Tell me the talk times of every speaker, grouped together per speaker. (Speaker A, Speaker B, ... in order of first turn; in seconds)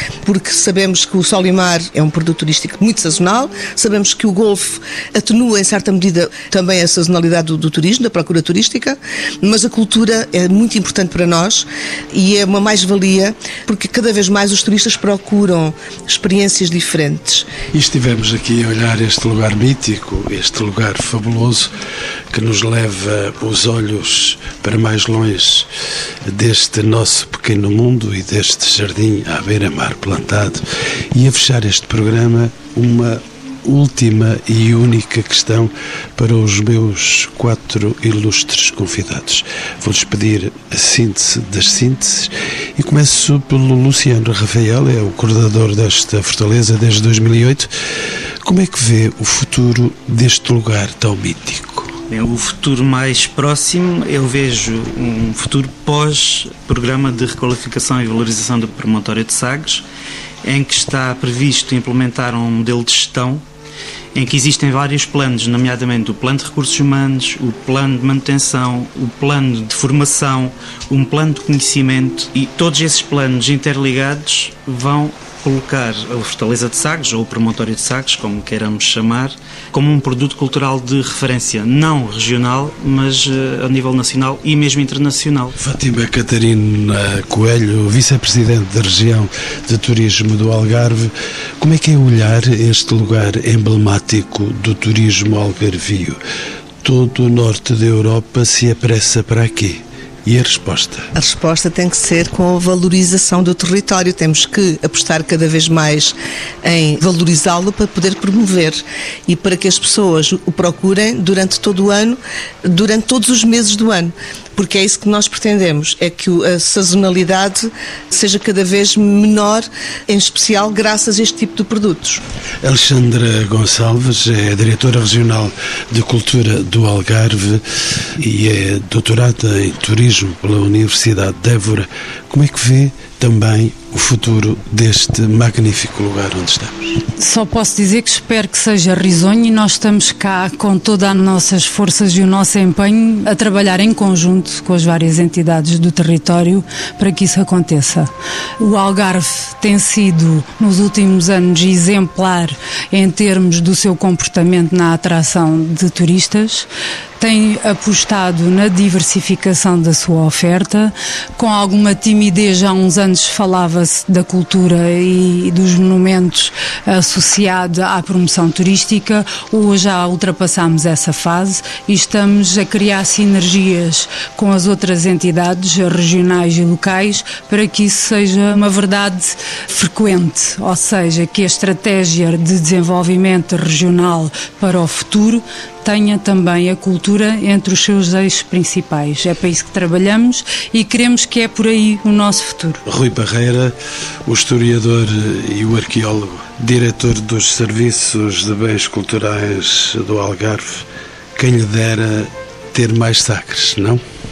Speaker A: 0.2-17.5, 101.1-122.2
Speaker B: 17.7-21.7, 22.3-25.7, 26.3-47.7, 48.4-52.0, 85.6-96.2, 96.8-101.1, 122.6-137.0, 192.8-193.7, 194.2-200.8, 201.4-204.0
Speaker C: 52.1-59.8, 60.4-63.4, 64.1-85.5
Speaker D: 137.2-156.7, 157.2-192.8